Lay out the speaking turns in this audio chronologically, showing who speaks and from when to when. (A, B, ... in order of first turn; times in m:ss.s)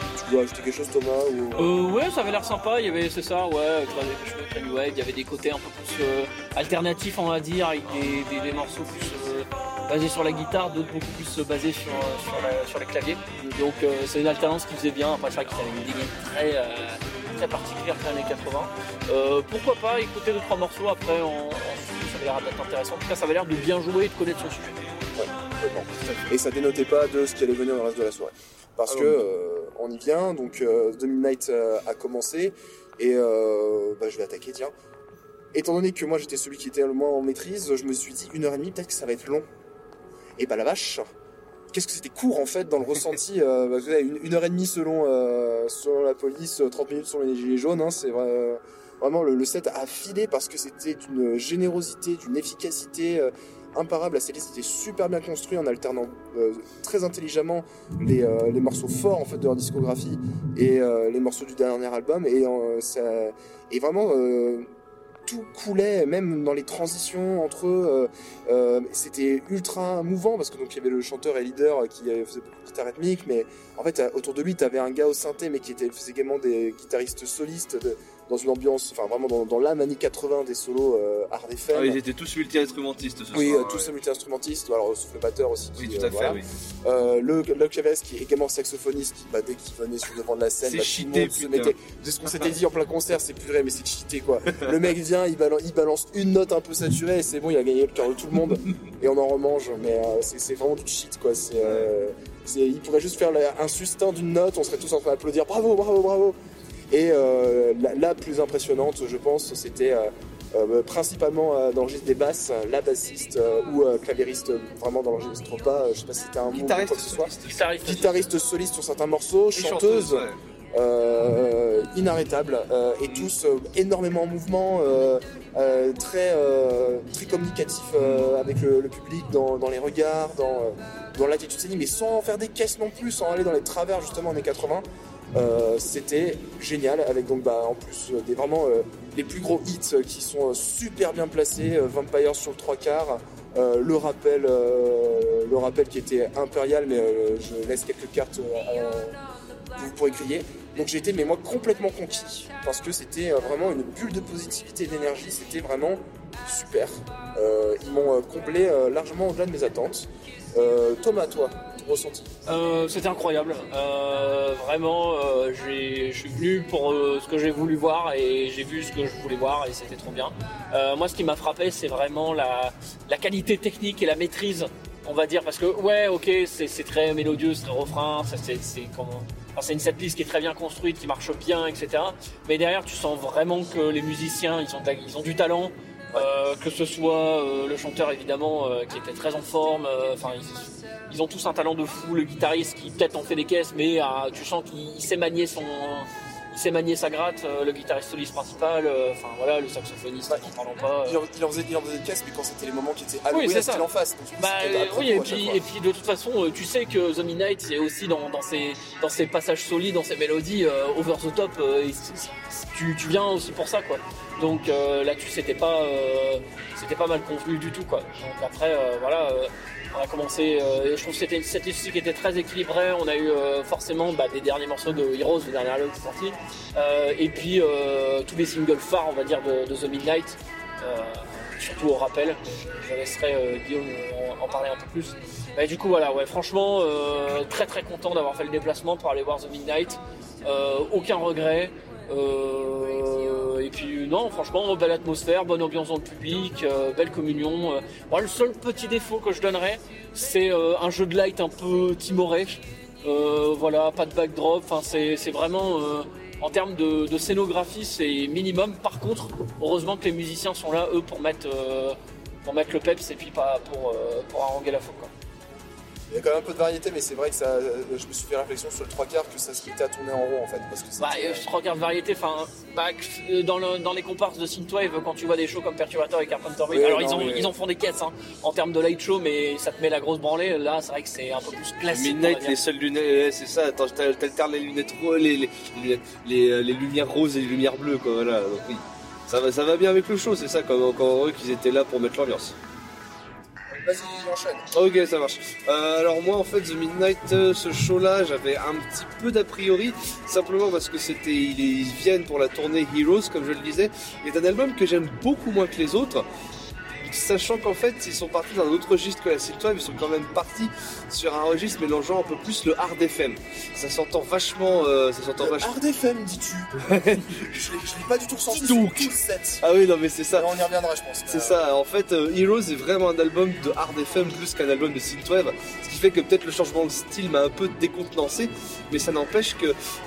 0:00.2-0:01.7 A
0:01.6-0:24.9 B
0:25.2-0:34.7 A
0:28.9-0:29.2 C
0:35.5-0:39.4 A
0:40.4-0:41.1 A
0:41.7-1:04.7 A
1:05.3-1:22.0 A
1:21.7-1:23.9 C
1:23.3-1:46.4 A
1:25.8-1:26.5 C
1:30.6-1:31.7 C
1:41.6-1:41.9 C
1:46.9-2:29.2 A
1:56.5-1:57.7 C
1:57.5-1:58.2 B
1:59.5-2:00.4 C
2:08.0-2:08.3 C
2:29.8-2:42.3 A
2:42.5-3:21.2 B
3:20.3-3:25.6 A
3:23.3-3:23.9 B
3:24.4-4:25.1 B
4:26.1-4:31.5 A
4:31.0-4:42.6 B
4:36.7-4:37.6 A
4:41.9-4:52.6 C
4:53.8-4:54.7 A
4:54.7-5:06.3 C
5:07.0-5:15.8 C
5:15.4-5:19.6 A
5:16.8-5:17.5 C
5:18.5-5:20.6 C
5:20.3-5:21.7 A
5:21.3-5:29.8 C